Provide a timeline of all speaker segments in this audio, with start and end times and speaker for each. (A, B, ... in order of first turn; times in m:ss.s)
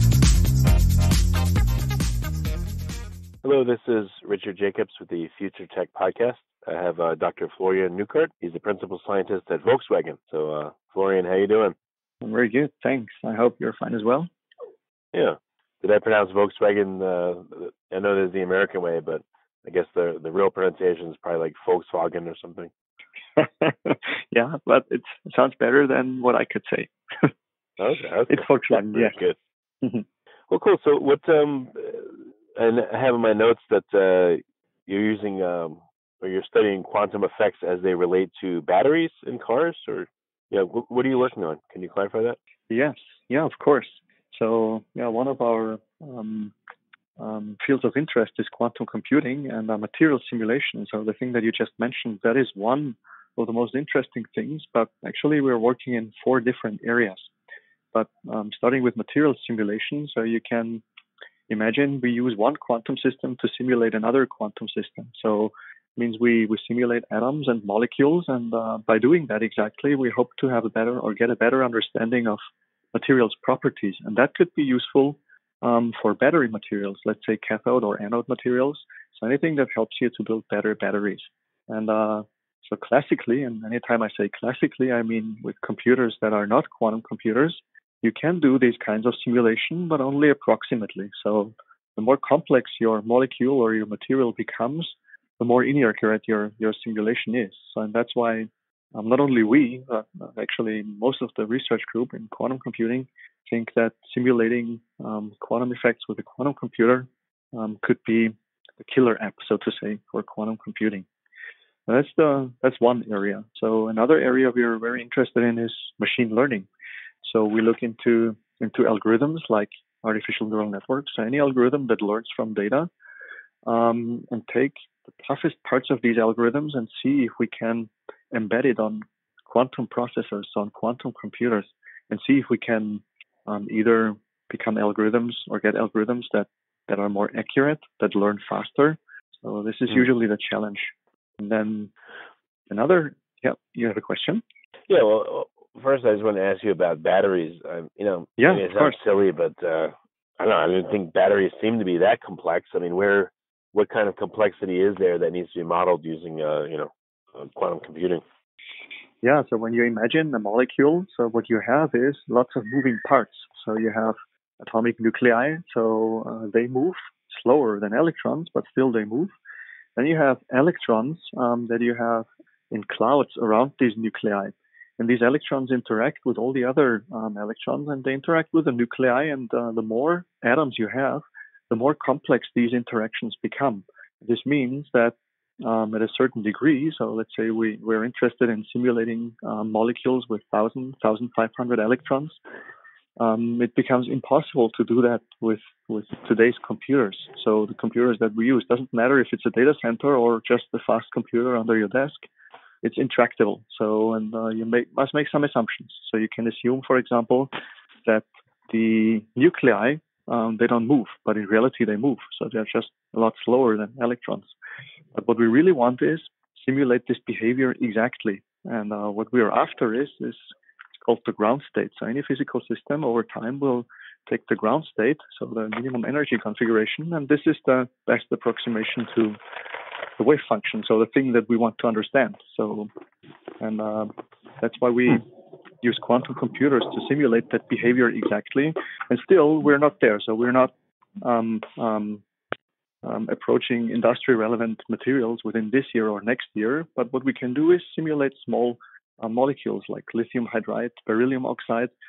0:03.4-0:11.8 A
0:12.2-0:14.3 B
0:15.1-0:22.7 A
0:23.4-0:27.3 B
0:27.8-0:29.4 A
0:28.3-0:29.2 B
0:30.5-0:42.4 A
0:42.7-0:46.5 B
0:47.2-0:57.3 B
0:57.9-1:00.8 B
1:01.5-1:12.4 B
1:12.9-1:51.1 B
1:51.9-1:56.7 B
1:57.2-2:02.9 B
2:03.7-2:21.9 B
2:22.7-2:24.4 B
2:24.9-2:38.2 A
2:28.4-2:29.0 B
2:39.2-2:49.3 B
2:50.0-3:12.4 B
3:13.2-3:22.3 B
3:22.8-3:27.5 B
3:28.0-3:34.5 B
3:35.1-3:40.4 B
3:41.0-3:49.4 B
3:50.2-3:52.9 B
3:53.6-4:02.2 B
4:03.0-4:11.9 B